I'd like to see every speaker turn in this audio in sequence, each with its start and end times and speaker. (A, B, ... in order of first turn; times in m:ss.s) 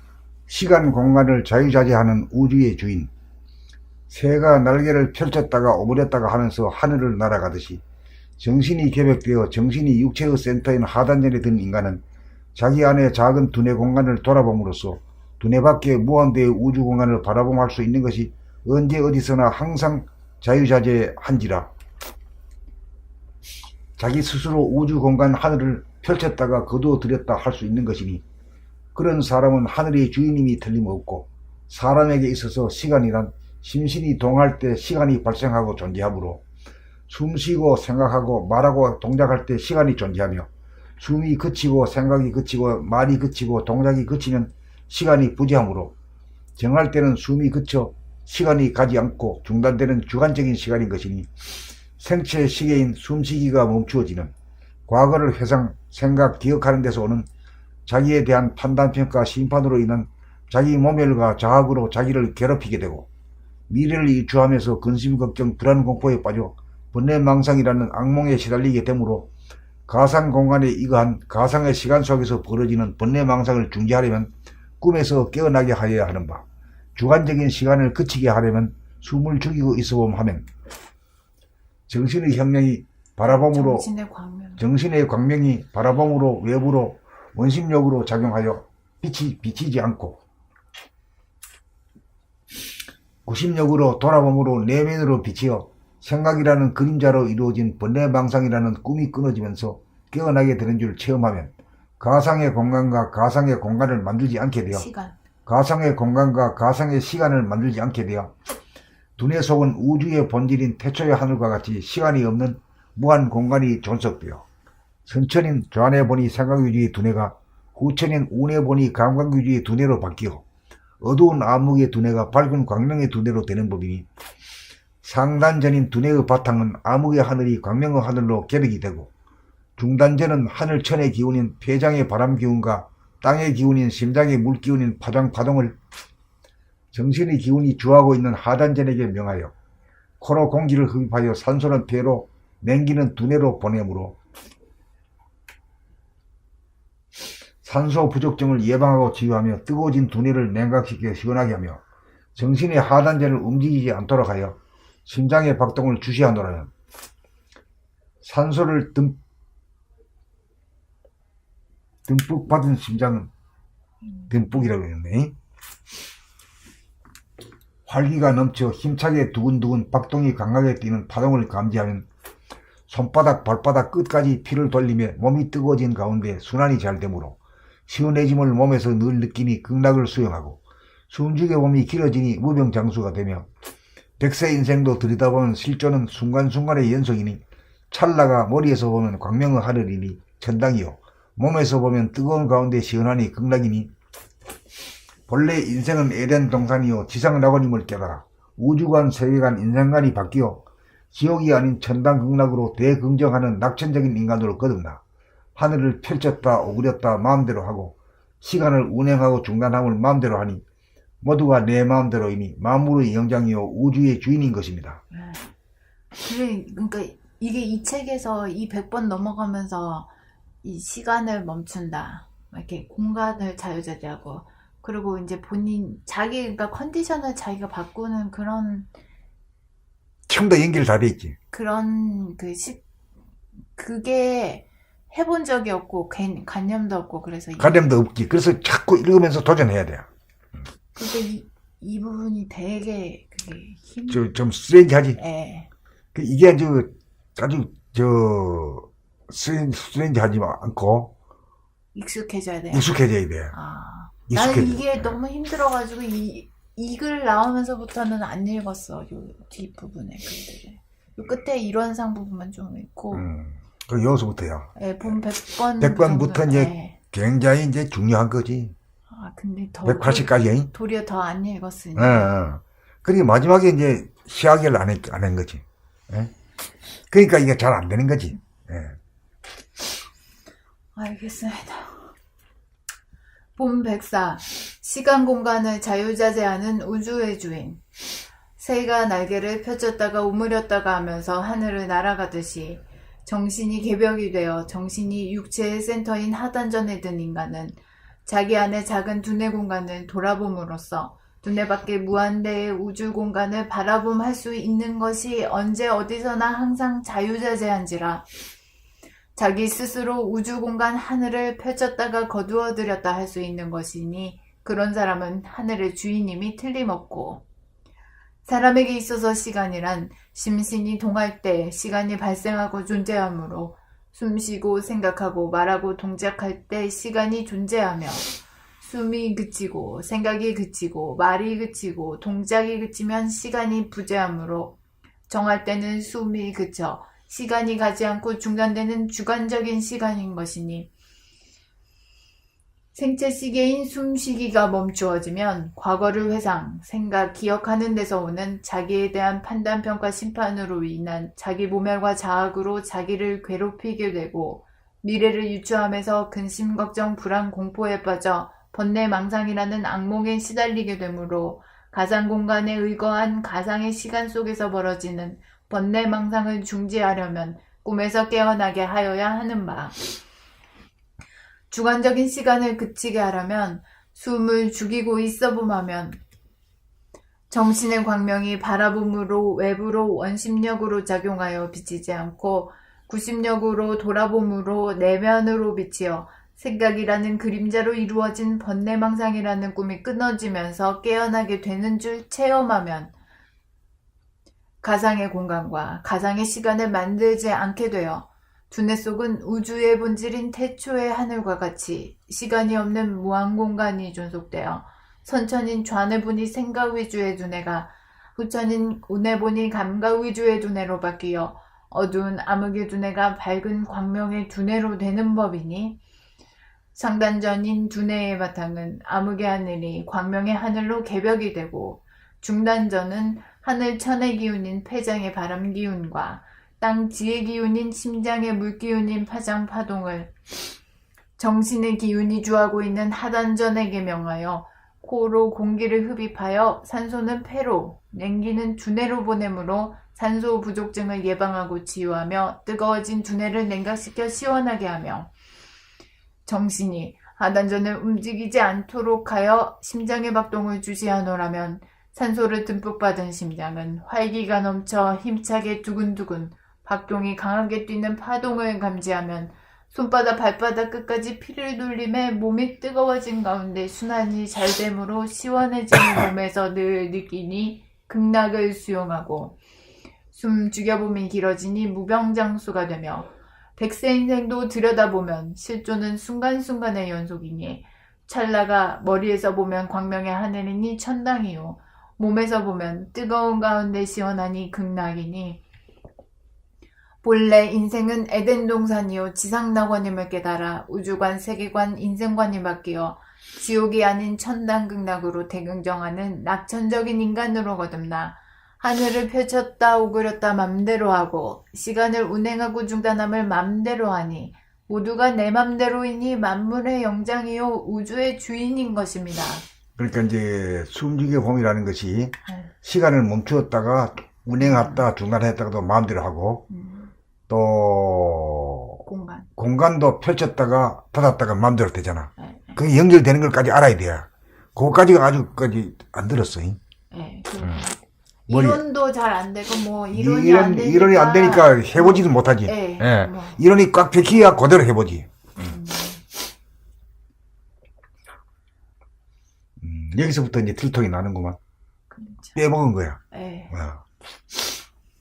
0:00.5-0:03.1 A
0:04.1-0:07.8 A
0:08.4-0:12.0 A
0:12.5-0:21.7 A
0:24.0-0:28.2 A
0:28.9-0:36.4 A
0:37.1-0:40.5 A
0:41.0-0:45.9 A
0:46.6-0:51.3 A
0:52.0-0:54.3 A
0:54.9-0:57.3 A
0:57.9-1:03.1 A
1:03.7-1:09.3 A
1:09.9-1:16.4 A
1:17.0-1:20.5 A
1:21.9-1:23.9 A
1:23.2-1:24.6 B
1:24.6-1:30.2 A
1:33.2-1:44.9 A
1:44.7-1:45.2 B
1:45.4-1:48.3 A
1:49.2-1:54.4 A
1:55.0-2:00.4 A
2:01.0-2:04.0 A
2:05.0-2:09.1 A
2:09.8-2:15.8 A
2:16.9-2:19.5 A
2:20.2-2:24.2 A
2:27.6-2:31.8 A
2:32.3-2:36.7 A
2:38.2-2:39.2 A
2:42.0-2:43.3 A
2:44.3-2:45.3 A
2:47.8-2:52.1 A
2:52.9-3:03.5 A
3:04.2-3:13.9 A
3:15.3-3:25.0 A
3:25.6-3:30.6 A
3:31.2-3:35.0 A
3:35.1-3:35.5 B
3:36.2-3:40.1 B
3:40.6-3:48.9 B
3:50.3-3:51.4 A
3:51.5-3:52.8 B
3:53.8-3:57.8 B
3:57.6-4:00.1 A
4:01.0-4:04.4 B
4:04.1-4:05.2 A
4:05.2-4:05.7 B
4:06.1-4:11.1 A
4:11.9-4:12.9 B
4:12.7-4:13.5 A
4:13.5-4:23.2 B
4:14.3-4:15.2 A
4:23.1-4:24.7 A
4:24.8-4:27.0 B
4:25.8-4:28.7 A
4:29.1-4:32.4 B
4:29.8-4:30.7 A
4:32.0-4:36.3 A
4:37.1-4:39.0 A
4:41.0-4:42.1 B
4:43.6-4:47.8 B
4:48.6-5:08.2 B
5:09.4-5:17.4 B
5:18.4-5:34.8 B
5:35.3-5:40.9 B
5:42.9-6:10.0 B
6:11.7-6:16.2 B
6:17.5-6:33.1 B
6:34.8-6:56.0 B
6:56.9-7:10.3 B
7:11.4-7:25.3 B
7:26.4-7:49.6 B
7:50.3-8:05.6 B
8:07.2-8:29.6 B
8:30.0-8:36.7 A
8:34.6-8:35.0 B
8:36.7-8:37.1 B
8:37.5-8:39.0 A
8:39.0-8:39.5 B
8:39.6-8:46.8 A
8:42.4-8:42.8 B
8:47.1-8:48.0 B
8:48.5-8:53.6 B
8:48.5-8:48.8 A
8:50.1-8:55.3 A
8:55.6-8:56.2 B
8:59.8-9:01.6 A
9:02.1-9:02.6 B
9:02.6-9:03.2 A
9:03.3-9:03.7 B
9:03.7-9:04.0 A